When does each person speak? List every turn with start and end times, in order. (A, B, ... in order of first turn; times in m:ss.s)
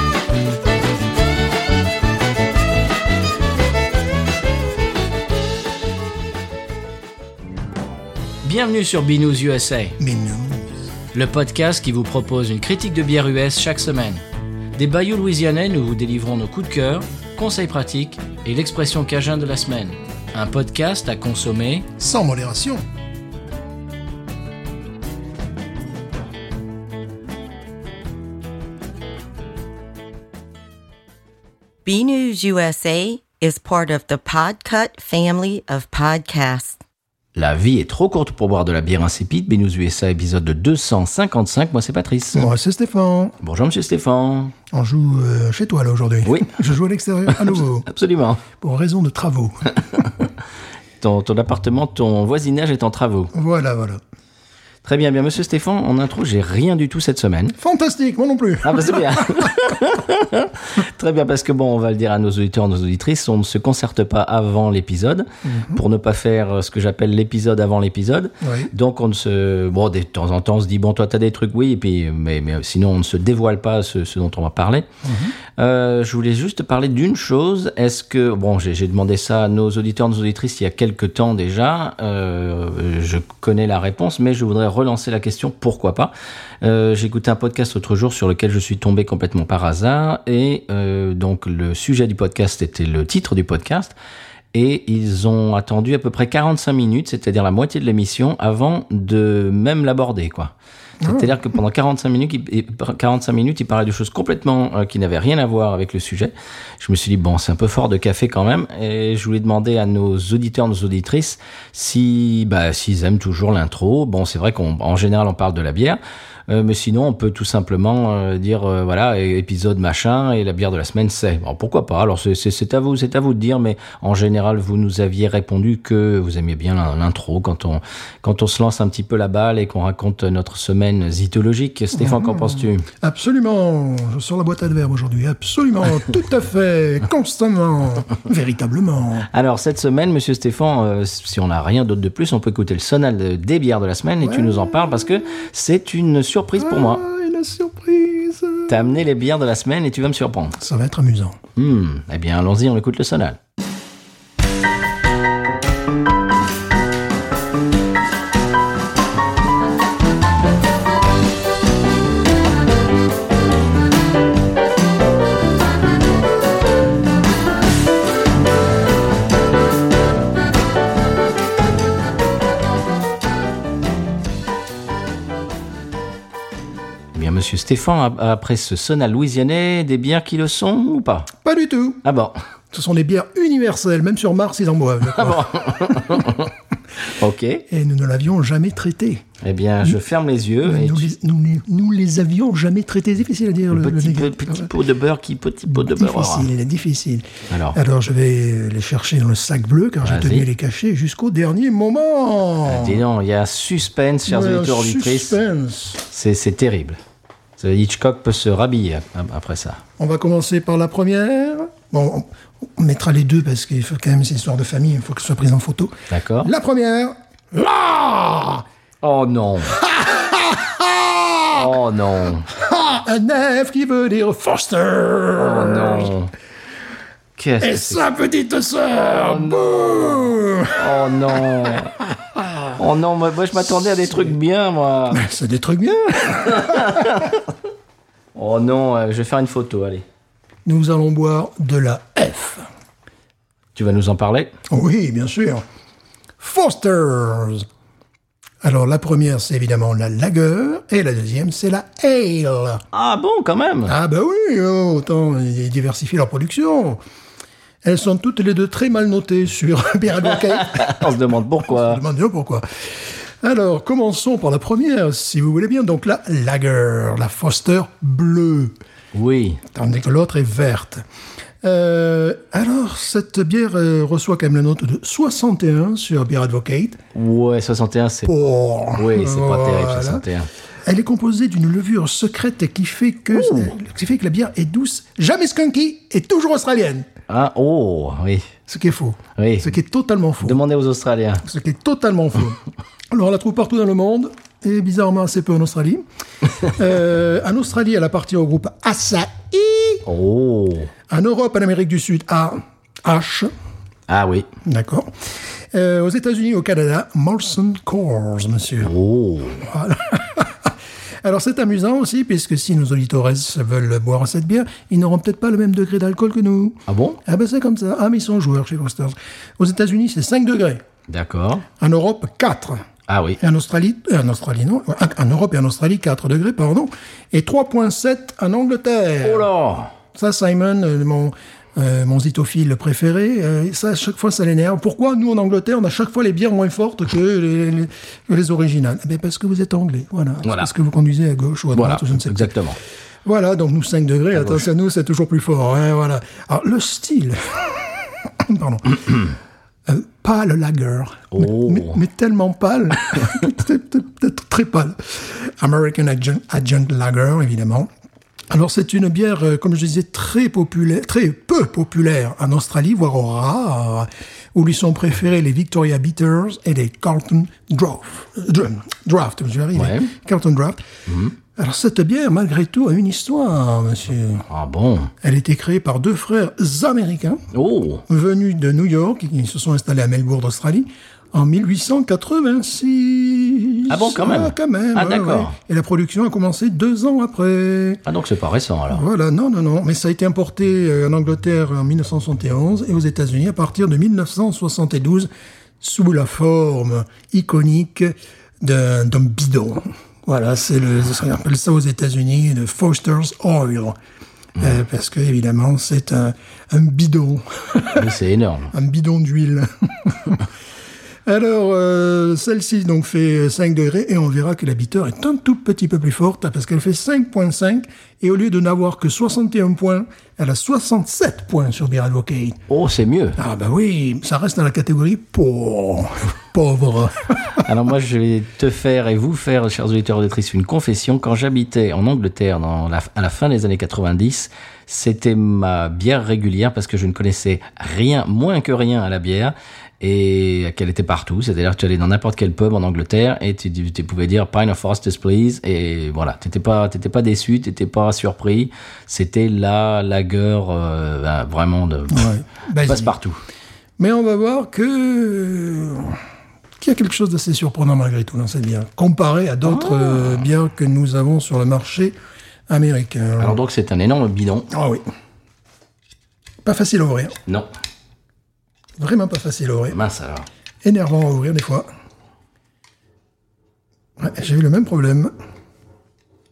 0:08.4-0:10.0 A
0:10.0-0:10.7 B
0:11.1-0:14.2 A
0:14.8-0:21.9 A
0:22.0-0:22.8 B
0:31.8-0:36.8 C
0:37.3-0:42.5 A
0:42.3-0:43.4 B
0:43.4-0:44.5 A
0:44.7-0:47.9 B
0:46.2-0:46.6 A
0:47.3-0:48.4 A
0:48.5-0:50.1 B
0:51.0-0:53.3 A
0:53.3-0:54.0 B
0:54.8-0:57.6 A
0:57.6-0:59.6 B
0:58.6-1:14.9 A
1:05.4-1:05.8 B
1:08.4-1:08.7 B
1:15.0-1:15.3 B
1:15.6-1:33.9 A
1:34.5-2:12.9 A
1:41.0-1:41.3 B
2:11.9-2:19.3 B
2:19.3-2:27.0 A
2:24.2-2:25.3 B
2:26.6-2:28.9 B
2:28.7-2:30.6 A
2:30.6-2:31.4 B
2:31.6-2:33.4 A
2:57.1-3:01.3 A
3:01.4-3:02.0 B
3:02.0-3:02.4 A
3:02.7-3:06.4 B
3:05.1-3:07.6 A
3:07.7-3:09.2 B
3:09.4-3:11.1 A
3:10.6-3:14.7 B
3:13.7-3:16.5 A
3:15.7-3:23.0 B
3:17.5-3:17.8 A
3:20.0-3:20.4 A
3:22.6-3:25.3 A
3:24.2-3:26.0 B
3:26.1-3:27.0 A
3:27.6-3:29.8 A
3:30.0-3:38.6 B
3:36.1-3:36.5 A
3:39.0-3:39.8 A
3:39.7-3:41.7 B
3:41.5-3:42.5 A
3:42.5-3:46.1 B
3:45.4-3:46.3 A
3:47.4-3:48.0 A
3:47.6-3:52.7 B
3:49.2-3:52.0 A
3:52.8-3:55.2 A
3:55.1-3:57.3 B
3:56.5-3:57.4 A
3:58.3-4:00.0 A
4:00.6-4:02.6 B
4:03.7-4:04.5 A
4:04.7-4:05.6 B
4:06.4-4:07.6 B
4:08.6-4:12.8 B
4:12.9-4:13.9 A
4:13.8-4:17.0 B
4:17.8-4:28.8 B
4:20.3-4:22.0 A
4:29.1-4:29.6 A
4:29.7-4:31.0 B
4:31.6-4:37.0 B
4:37.1-4:38.3 A
4:38.2-4:40.2 B
4:38.9-4:40.5 A
4:40.8-4:47.1 B
4:43.3-4:43.7 A
4:47.3-4:48.5 A
4:48.7-4:50.6 B
4:49.4-4:49.8 A
4:50.4-4:51.4 A
4:51.4-4:52.6 B
4:53.1-4:56.0 B
4:56.6-5:00.0 B
5:00.0-5:00.9 A
5:01.1-5:03.5 B
5:04.1-5:04.5 A
5:04.6-5:05.1 B
5:05.7-5:08.9 B
5:08.8-5:09.6 A
5:09.6-5:20.8 B
5:16.9-5:17.2 A
5:21.1-5:21.6 A
5:21.8-5:22.8 B
5:23.1-5:23.4 A
5:23.4-5:29.5 B
5:29.2-5:29.9 A
5:30.1-5:42.5 B
5:40.4-5:40.7 A
5:41.7-5:42.8 A
5:43.2-5:49.1 B
5:44.4-5:44.6 A
5:49.8-5:57.9 B
5:51.3-5:52.0 A
5:58.5-6:10.8 B
6:09.7-6:10.1 A
6:11.1-6:11.4 A
6:11.6-6:14.5 B
6:14.5-6:15.1 A
6:15.2-6:17.4 B
6:17.5-6:18.0 A
6:18.1-6:28.0 B
6:23.9-6:25.6 A
6:28.0-6:29.0 A
6:28.9-6:35.3 B
6:35.8-6:44.0 B
6:44.6-6:48.1 B
6:47.9-6:48.7 A
6:48.7-6:50.4 B
6:51.2-7:02.6 B
7:02.7-7:03.4 A
7:03.4-7:07.6 B
7:07.6-7:32.3 A
7:32.1-7:33.1 B
7:32.8-7:33.4 A
7:34.0-7:36.2 B
7:36.8-7:42.1 B
7:39.6-7:40.5 A
7:42.7-7:43.6 B
7:43.4-7:44.7 A
7:44.7-7:45.0 B
7:46.6-7:47.4 B
7:49.0-7:50.0 B
7:49.9-7:50.5 A
7:50.8-7:51.9 B
7:54.2-7:55.3 B